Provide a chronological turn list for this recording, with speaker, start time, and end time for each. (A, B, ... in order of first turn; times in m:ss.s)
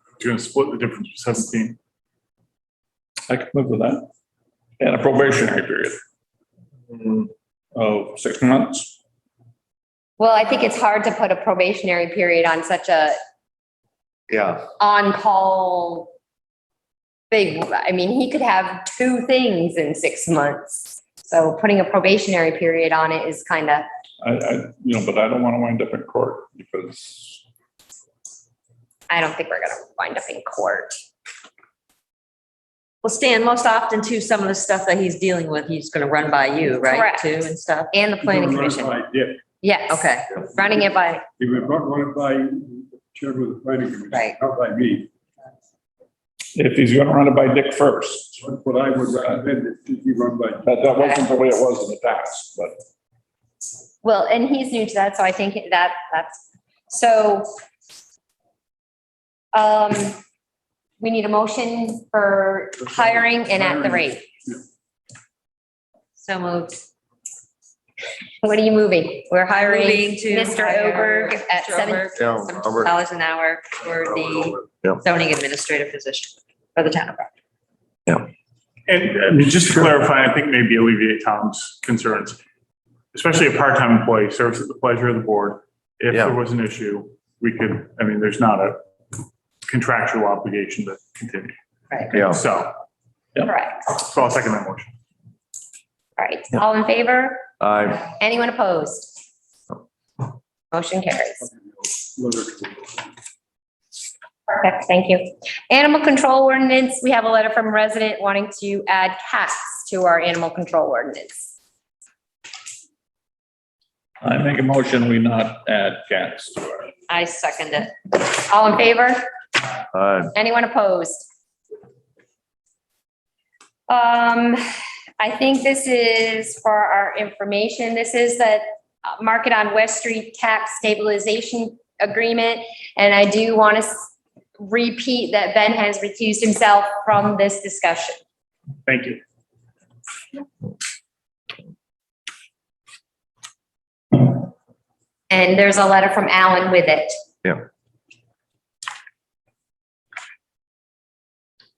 0:00.2-0:01.8 A
0:03.3-0:04.1 B
0:04.8-0:06.0 B
0:07.7-0:09.0 B
0:10.2-0:13.2 C
0:14.3-0:14.7 D
0:14.8-0:16.1 C
0:17.3-0:23.8 C
0:24.2-0:27.4 B
0:29.1-0:31.0 C
0:33.0-0:37.9 E
0:36.9-0:37.2 C
0:37.9-0:38.9 C
0:38.2-0:39.4 F
0:39.6-0:41.2 C
0:39.9-0:40.3 E
0:41.4-0:45.1 F
0:44.1-0:44.4 E
0:46.5-0:48.4 B
0:48.4-0:50.8 F
0:50.6-0:52.8 B
0:54.0-0:57.5 C
0:59.5-1:00.2 C
1:01.0-1:04.3 C
1:03.6-1:04.6 F
1:06.2-1:06.8 E
1:08.4-1:12.1 C
1:09.6-1:17.3 E
1:12.2-1:12.9 D
1:18.9-1:22.4 A
1:23.1-1:31.6 A
1:32.1-1:32.8 A
1:32.1-1:32.4 D
1:33.4-1:33.9 C
1:33.9-1:34.9 A
1:36.2-1:37.5 C
1:37.6-1:38.0 D
1:38.0-1:39.2 C
1:40.7-1:41.5 C
1:41.8-1:43.0 F
1:44.5-1:51.5 C
1:54.2-1:56.9 B
1:57.1-1:58.0 E
1:58.2-1:59.2 C
1:59.9-2:00.3 D
2:00.4-2:01.3 C
2:03.9-2:04.6 C
2:05.2-2:18.2 C
2:18.9-2:19.2 A
2:25.3-2:27.1 C